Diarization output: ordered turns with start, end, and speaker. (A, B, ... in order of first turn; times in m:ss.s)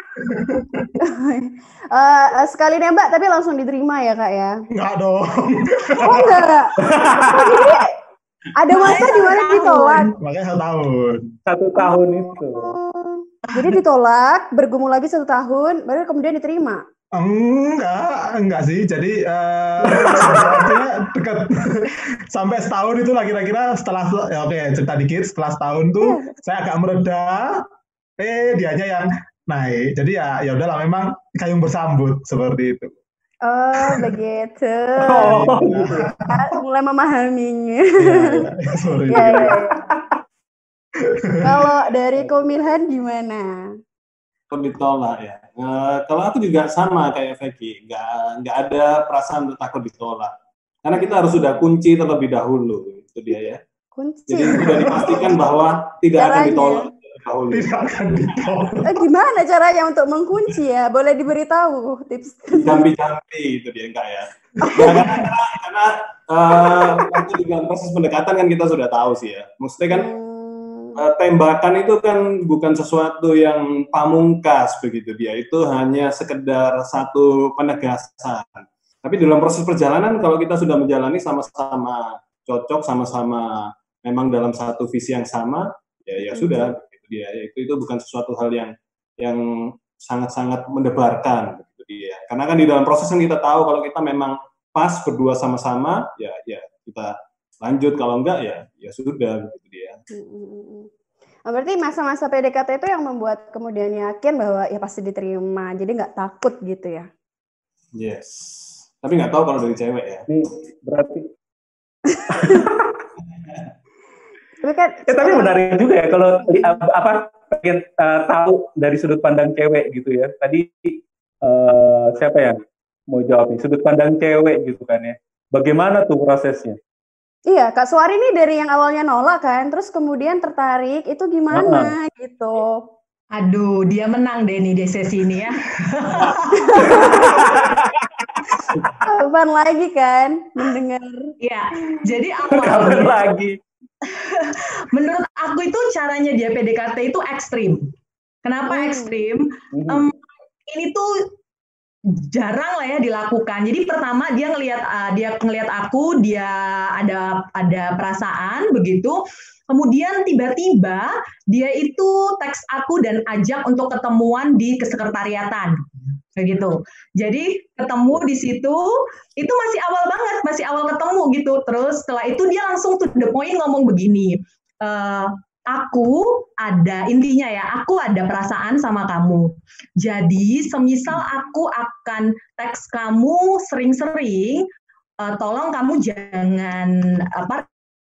0:00.2-0:00.9 A
0:01.0-0:04.6 B
0:04.7-0:06.5 A
0:06.0-0:08.0 B
0:06.8-0:07.8 C
0:08.6-0:10.1 B
0:08.7-0:10.0 D
0:10.0-0:11.3 A
0:11.5-0:12.7 C
0:11.8-0:16.8 B
0:17.2-0:27.6 A
0:19.8-0:20.8 C
0:26.0-0:26.3 B
0:28.2-0:32.9 A
0:33.5-0:38.4 B
0:35.0-0:35.8 C
0:35.2-0:36.3 A
0:38.0-0:39.6 A
0:39.1-0:39.8 B
0:39.5-0:40.2 C
0:41.0-0:41.7 A
0:41.4-0:43.5 B
0:44.5-0:50.3 E
0:50.8-0:53.6 E
0:51.0-0:51.4 B
0:54.0-0:55.4 B
0:54.3-0:58.5 E
0:54.6-0:55.4 A
0:56.2-0:56.9 B
0:57.5-0:59.0 A
0:58.9-1:02.9 B
1:02.6-1:10.1 E
1:04.6-1:05.0 B
1:09.9-1:11.0 B
1:11.0-1:40.0 E
1:26.3-1:26.7 B
1:40.1-1:40.9 B
1:41.5-1:47.1 B
1:48.0-1:50.3 E
1:50.3-1:51.3 C
1:52.1-1:52.7 B
1:52.3-1:53.0 C
1:54.6-1:55.7 B
1:55.1-2:02.6 C
1:56.4-1:56.8 B
2:03.1-2:06.8 C
2:07.5-2:12.8 B
2:11.5-2:11.9 C
2:13.4-2:17.0 D
2:16.5-2:17.5 B
2:16.9-2:19.0 C
2:19.0-2:21.3 B
2:21.4-2:23.2 D
2:22.4-2:23.6 C
2:24.0-2:27.9 D
2:28.4-2:30.1 D
2:28.7-2:29.2 B
2:29.7-2:30.0 C
2:30.7-2:31.1 D
2:32.2-2:39.2 D
2:39.7-2:45.8 D
2:46.4-3:04.7 D
3:05.2-3:07.7 D